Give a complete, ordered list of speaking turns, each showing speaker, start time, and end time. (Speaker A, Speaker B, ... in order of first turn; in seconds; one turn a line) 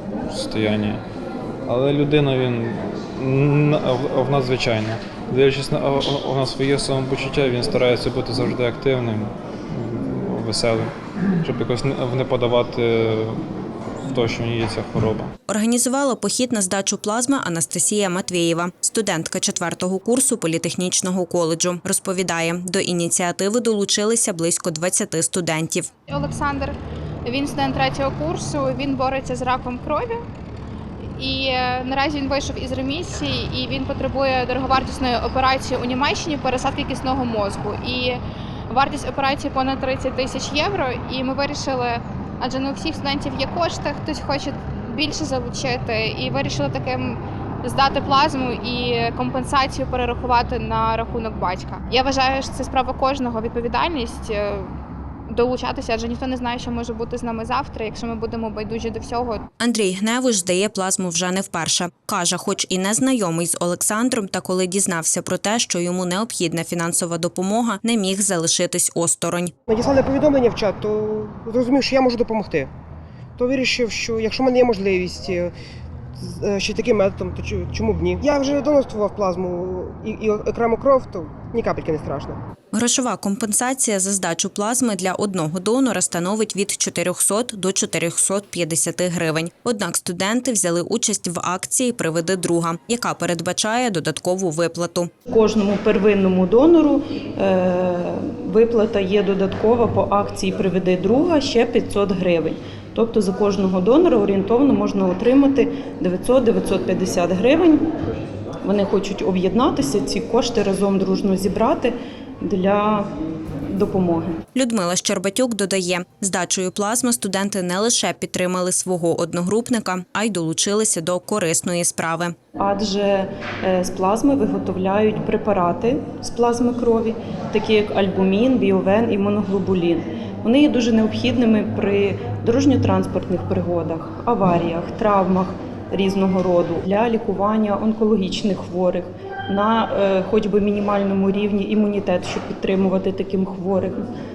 Speaker A: 0.3-1.0
Speaker A: 1.6-10.9
Speaker A: 11.4-13.4
Speaker A: 14.0-15.3
Speaker B: 15.5-25.9
Speaker C: 26.1-30.2
Speaker C: 31.1-54.7
Speaker C: 55.3-59.4
Speaker B: 59.6-69.5
Speaker D: 69.7-72.7
Speaker D: 73.4-75.5
Speaker D: 76.2-82.4
Speaker B: 82.7-95.1
Speaker E: 95.3-107.8
Speaker E: 108.6-113.1
Speaker E: 113.7-114.4
Speaker B: 114.5-122.3
Speaker E: 122.6-144.0